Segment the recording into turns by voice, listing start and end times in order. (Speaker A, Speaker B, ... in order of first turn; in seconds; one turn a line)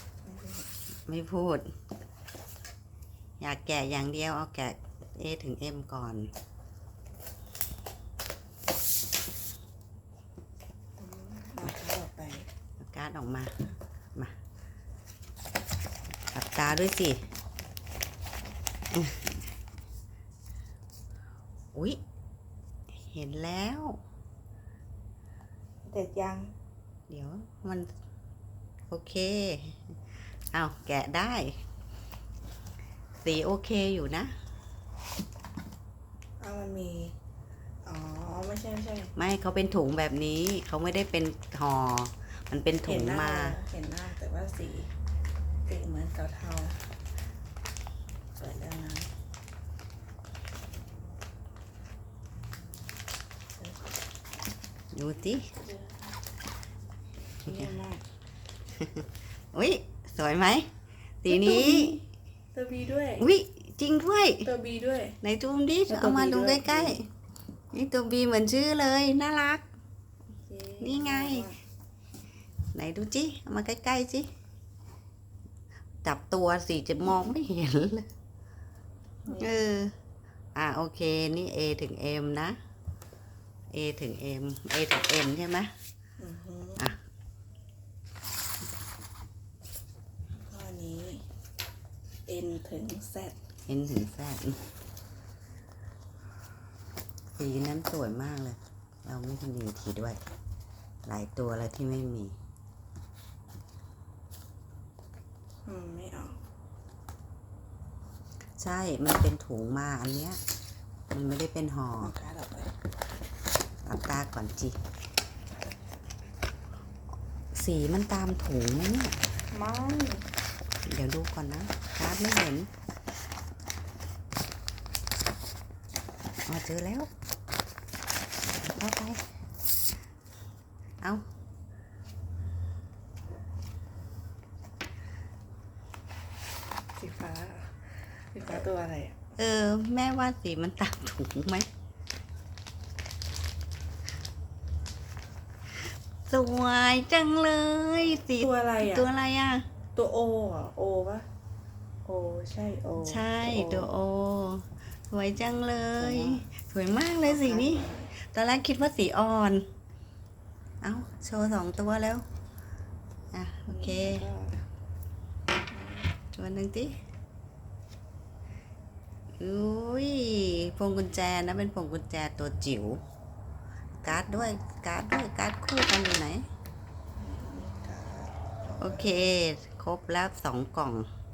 Speaker A: 0.2-0.7
Speaker B: 1.1-1.7
Speaker B: 3.4-6.3
Speaker A: 11.0-12.5
Speaker B: 12.8-13.5
Speaker B: 16.3-17.2
Speaker B: 18.9-19.3
Speaker B: 21.7-22.0
Speaker B: 23.1-24.0
Speaker A: 25.9-26.5
Speaker B: 27.1-27.9
Speaker B: 28.9-29.9
Speaker B: 30.5-31.6
Speaker B: 33.2-34.3
Speaker A: 36.4-37.1
Speaker A: 37.8-39.1
Speaker B: 39.2-43.6
Speaker A: 42.8-44.9
Speaker A: 45.7-46.8
Speaker A: 48.4-49.1
Speaker B: 54.9-55.5
Speaker A: 55.5-56.0
Speaker A: 57.4-58.0
Speaker B: 58.8-60.7
Speaker B: 61.2-62.0
Speaker A: 61.3-62.0
Speaker A: 62.5-63.3
Speaker B: 63.2-64.5
Speaker A: 64.4-65.2
Speaker B: 65.2-67.1
Speaker A: 65.9-67.0
Speaker B: 67.7-69.7
Speaker A: 70.5-71.6
Speaker B: 70.8-71.5
Speaker B: 72.7-74.3
Speaker B: 76.0-78.1
Speaker A: 79.2-79.5
Speaker B: 79.3-79.9
Speaker B: 80.5-82.5
Speaker B: 83.7-85.7
Speaker A: 86.2-86.9
Speaker A: 90.5-91.2
Speaker A: 92.3-93.4
Speaker B: 93.7-94.6
Speaker B: 97.4-100.2
Speaker B: 101.0-102.3
Speaker A: 105.7-106.4
Speaker B: 108.6-110.4
Speaker B: 111.1-112.1
Speaker A: 112.0-112.7
Speaker B: 113.8-114.8
Speaker B: 117.5-119.2
Speaker A: 119.5-120.2
Speaker B: 120.8-122.7
Speaker B: 126.5-127.1
Speaker B: 128.8-129.2
Speaker A: 136.9-139.2
Speaker B: 139.4-141.7
Speaker B: 146.3-149.7
Speaker A: 148.4-149.1
Speaker A: 149.9-151.2
Speaker A: 152.0-153.9
Speaker B: 153.0-159.7
Speaker A: 156.0-156.5
Speaker A: 157.2-158.1
Speaker B: 160.8-162.2
Speaker B: 163.3-164.2
Speaker A: 163.7-164.6
Speaker A: 165.7-166.1
Speaker B: 166.3-166.9
Speaker B: 169.4-173.0
Speaker B: 174.0-176.4
Speaker A: 177.2-179.1
Speaker B: 178.8-181.1